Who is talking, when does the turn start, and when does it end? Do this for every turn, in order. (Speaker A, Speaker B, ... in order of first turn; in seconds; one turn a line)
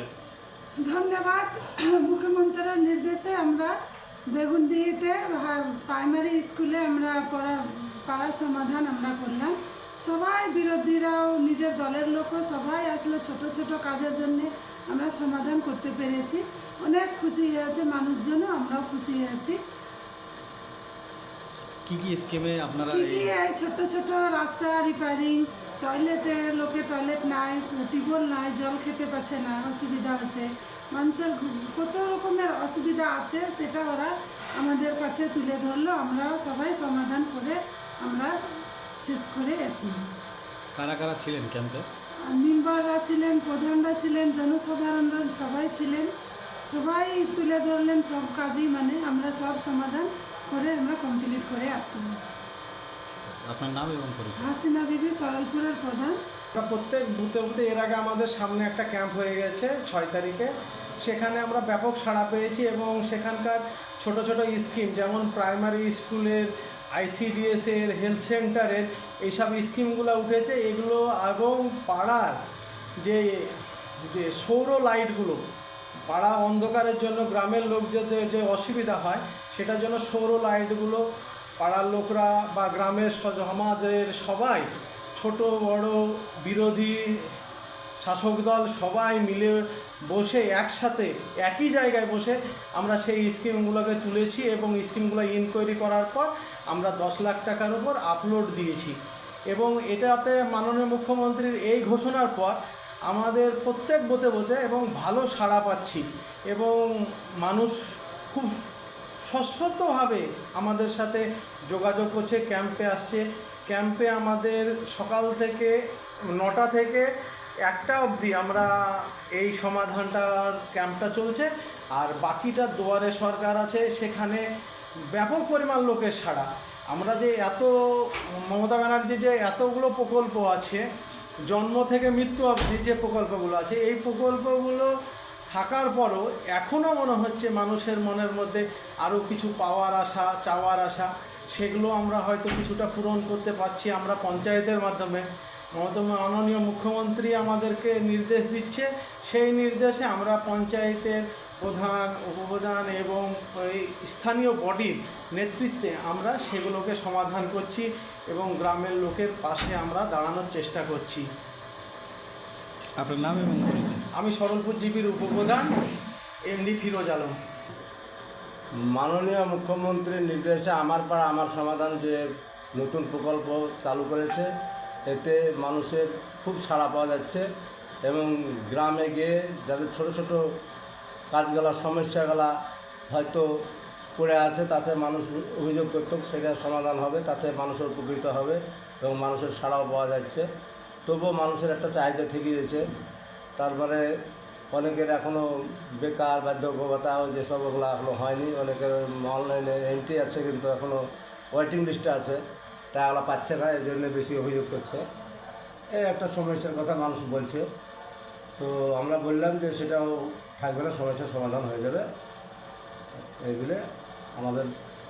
Speaker A: 0.8-3.7
Speaker A: 4.3-19.6
Speaker B: 21.8-23.3
Speaker A: 22.9-38.3
Speaker A: 39.0-40.0
Speaker B: 40.7-41.9
Speaker A: 42.2-46.1
Speaker A: 46.6-52.2
Speaker B: 53.1-54.5
Speaker A: 54.4-56.2
Speaker C: 56.5-72.4
Speaker C: 73.0-73.4
Speaker C: 74.0-75.4
Speaker C: 76.1-81.0
Speaker C: 81.6-87.0
Speaker C: 88.0-98.9
Speaker C: 99.5-102.5
Speaker C: 103.1-106.8
Speaker C: 107.4-107.8
Speaker C: 109.3-115.7
Speaker C: 116.3-117.1
Speaker C: 117.7-118.7
Speaker C: 119.3-124.4
Speaker C: 125.1-127.7
Speaker C: 128.5-130.8
Speaker C: 131.5-134.9
Speaker C: 135.5-145.2
Speaker C: 145.7-161.2
Speaker B: 163.0-164.0
Speaker C: 164.1-165.7
Speaker C: 166.5-167.3
Speaker D: 168.8-172.2
Speaker D: 172.7-174.5
Speaker D: 175.1-177.5
Speaker D: 178.0-180.6
Speaker D: 181.3-182.6
Speaker D: 183.1-183.7
Speaker D: 184.2-190.5
Speaker D: 191.1-192.8
Speaker D: 193.6-194.0
Speaker D: 194.7-202.4
Speaker D: 202.9-205.0
Speaker D: 205.9-207.7
Speaker D: 208.6-212.1
Speaker D: 213.2-213.8
Speaker D: 214.3-214.7